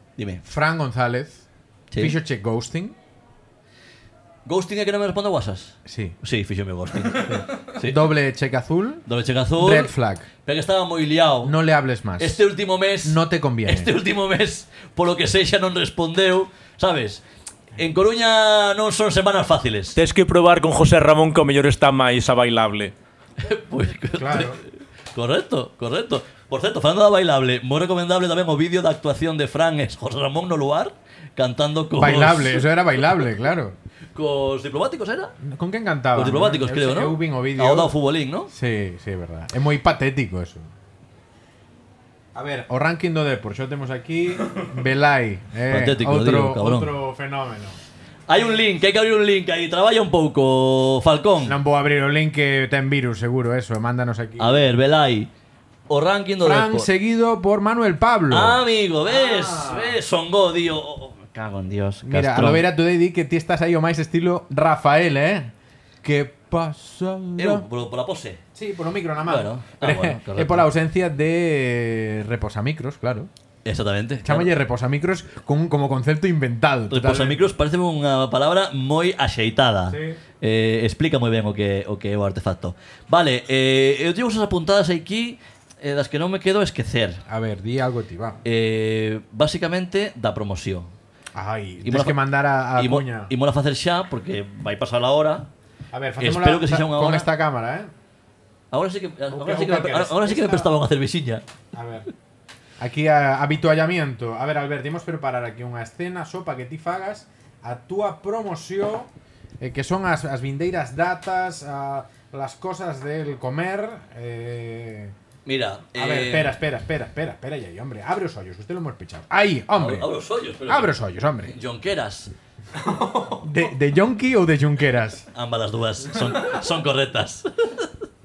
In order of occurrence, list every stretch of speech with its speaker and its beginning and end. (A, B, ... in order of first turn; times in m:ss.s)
0:00.2-0:00.4 A
0:00.4-0:01.4 B
0:01.9-0:02.2 A
0:02.0-0:03.0 B
0:04.4-0:08.1 A
0:05.8-0:06.2 B
0:07.2-0:09.0 B
0:09.1-0:09.9 A
0:09.6-0:10.3 B
0:10.4-0:11.6 A
0:11.4-0:12.4 B
0:12.2-0:17.2 A
0:13.0-0:13.9 B
0:17.8-0:20.0 A
0:20.0-0:22.9 C
0:23.4-0:33.2 A
0:24.1-0:24.6 B
0:32.0-0:33.8 B
0:34.1-0:35.4 A
0:35.4-0:37.9 B
0:36.1-0:38.5 A
0:38.5-0:40.7 B
0:42.4-0:47.8 B
0:45.7-0:47.0 A
0:48.3-0:51.6 A
0:51.4-0:54.6 B
0:54.4-0:55.3 A
0:55.9-0:56.9 A
0:56.4-1:00.0 B
0:58.3-1:02.6 A
1:02.0-1:05.5 B
1:06.0-1:07.6 B
1:07.4-1:08.4 A
1:08.6-1:13.3 B
1:09.3-1:10.7 A
1:13.6-1:14.5 A
1:14.2-1:17.5 B
1:16.9-1:27.2 A
1:19.9-1:20.2 B
1:27.3-1:28.4 B
1:28.4-1:30.9 A
1:31.4-1:33.3 B
1:31.8-1:32.2 A
1:32.8-1:35.5 A
1:35.9-1:37.9 B
1:36.2-1:37.3 A
1:38.7-1:41.4 A
1:39.3-1:40.7 B
1:41.7-1:42.1 B
1:42.8-1:55.1 B
1:55.4-1:56.6 A
1:56.0-2:00.1 B
1:59.7-2:00.9 A
2:00.6-2:01.5 B
2:01.4-2:02.3 A
2:03.0-2:03.4 A
2:03.3-2:05.3 B
2:05.3-2:07.9 A